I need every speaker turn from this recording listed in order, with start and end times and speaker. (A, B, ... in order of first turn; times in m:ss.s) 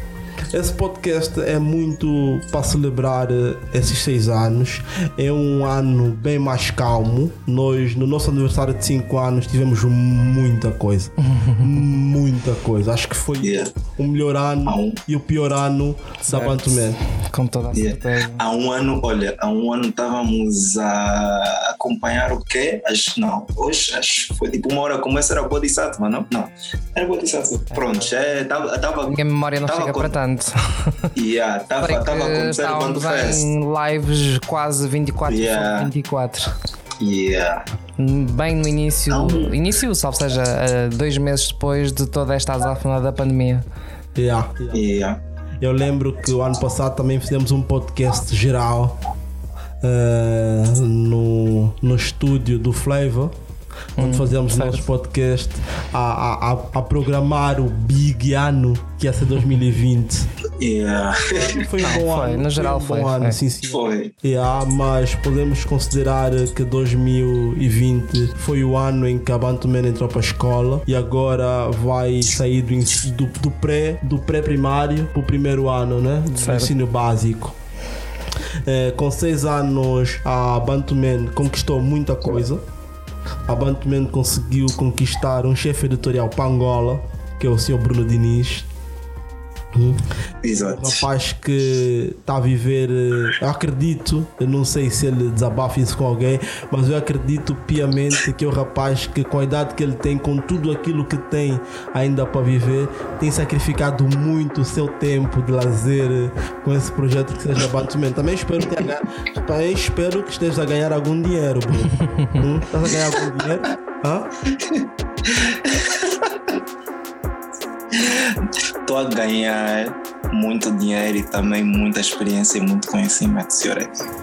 0:00.5-0:17.0 A
0:11.3-0:11.6 B
0:13.4-0:13.7 C
0:14.7-0:15.0 C
0:16.2-0:18.4 B
0:17.7-0:30.2 C
0:27.7-0:31.1 B
0:31.2-0:33.4 C
0:31.8-0:36.5 B
0:35.3-0:35.9 C
0:37.0-0:37.6 C
0:38.0-0:43.6 B
0:39.1-0:39.5 C
0:44.2-0:44.8 A
0:44.7-0:45.2 C
0:45.6-0:49.0 A
0:49.8-0:53.4 A
0:54.0-0:54.8 B
0:54.0-1:00.3 A
1:00.6-1:01.7 C
1:01.3-1:17.6 A
1:01.8-1:03.4 B
1:03.7-1:04.1 C
1:16.4-1:16.7 B
1:18.6-1:22.6 A
1:23.5-1:28.7 A
1:29.7-1:30.1 A
1:30.4-1:31.0 C
1:30.6-1:54.3 A
1:54.5-1:56.4 C
1:57.9-2:04.0 C